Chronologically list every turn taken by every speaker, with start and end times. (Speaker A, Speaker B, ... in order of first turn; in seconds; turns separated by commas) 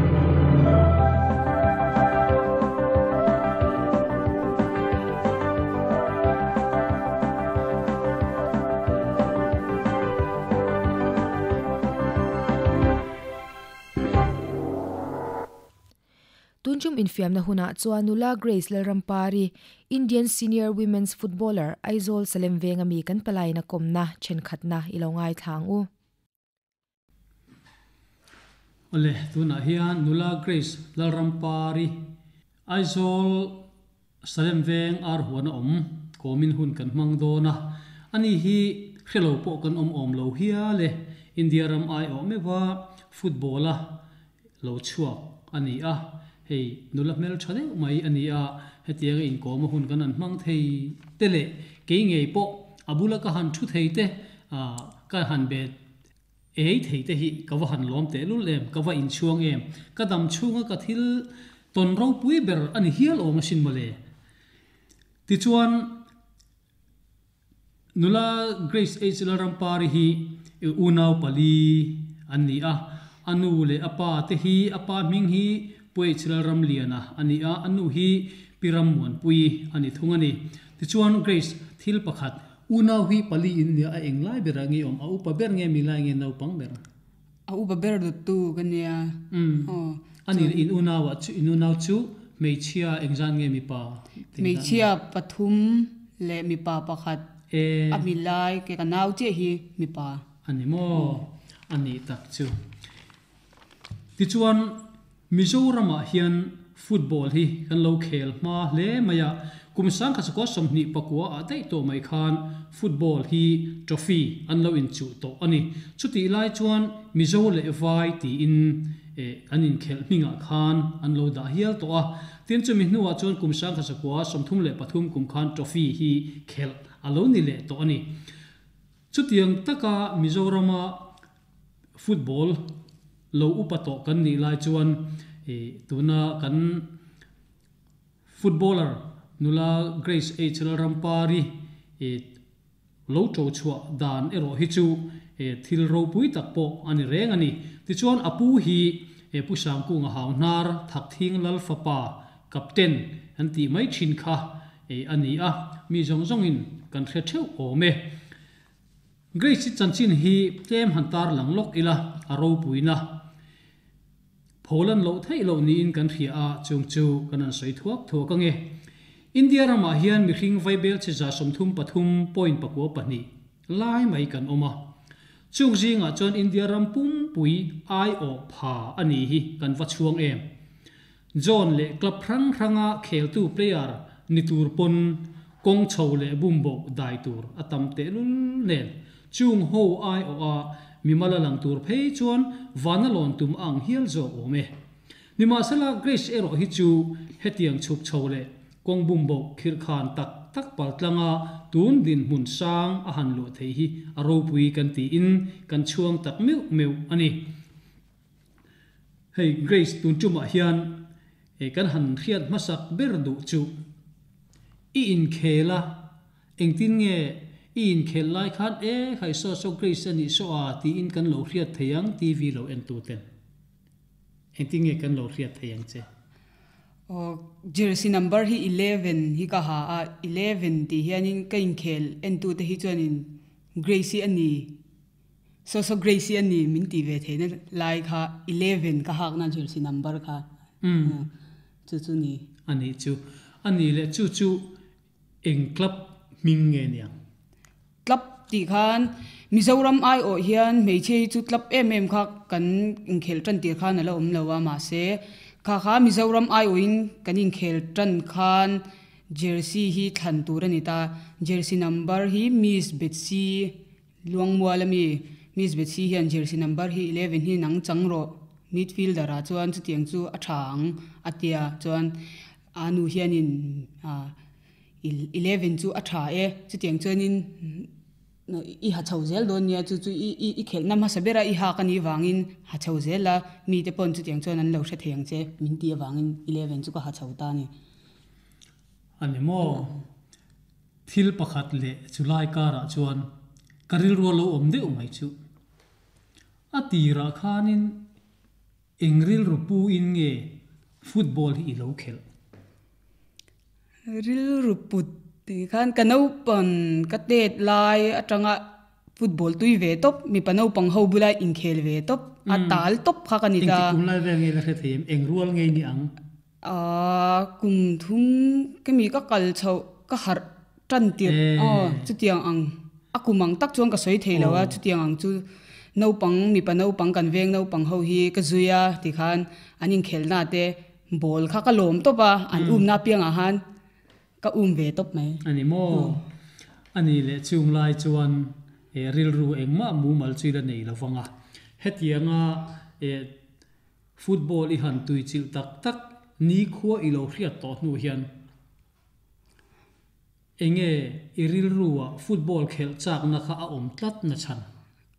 Speaker A: 16.6-25.9, Speaker B: 28.9-32.1, Speaker B: 32.7-33.6, Speaker B: 34.2-44.0, Speaker B: 44.6-55.8, Speaker B: 56.6-64.0, Speaker B: 65.3-66.0, Speaker B: 68.0-86.8, Speaker C: 87.5-90.7, Speaker B: 89.3-89.7, Speaker B: 90.3-94.9, Speaker C: 94.4-97.2, Speaker B: 97.5-98.1, Speaker C: 97.9-100.2, Speaker B: 100.5-102.6, Speaker B: 104.2-128.2, Speaker B: 129.1-131.1, Speaker B: 132.0-132.7, Speaker B: 133.3-136.9, Speaker B: 138.3-142.3, Speaker B: 143.1-158.2, Speaker B: 159.3-163.2, Speaker B: 164.6-168.8, Speaker B: 169.3-174.8, Speaker B: 175.5-180.5, Speaker B: 181.4-194.7, Speaker B: 195.4-207.5, Speaker B: 209.3-211.1, Speaker B: 211.6-213.7, Speaker B: 214.9-216.1, Speaker B: 216.6-223.3, Speaker B: 224.6-226.1, Speaker C: 227.1-234.7, Speaker C: 235.7-240.5, Speaker B: 240.8-241.2, Speaker C: 241.0-241.3, Speaker C: 241.9-242.4, Speaker B: 242.7-244.7, Speaker B: 245.4-247.2, Speaker C: 248.1-272.2, Speaker C: 272.8-274.4, Speaker C: 275.0-277.9, Speaker C: 278.5-287.7, Speaker B: 289.2-290.0, Speaker B: 291.1-293.3, Speaker B: 293.9-295.4, Speaker B: 296.7-298.1, Speaker B: 299.0-302.2, Speaker C: 304.1-308.6, Speaker C: 309.2-314.0, Speaker B: 312.5-312.9, Speaker B: 313.6-316.1, Speaker C: 316.6-325.4, Speaker B: 321.2-322.1, Speaker B: 324.3-324.8, Speaker C: 326.0-333.6, Speaker B: 332.5-332.9, Speaker C: 334.4-336.2, Speaker B: 335.4-336.2, Speaker B: 336.9-343.3, Speaker B: 344.2-348.3, Speaker B: 350.6-354.7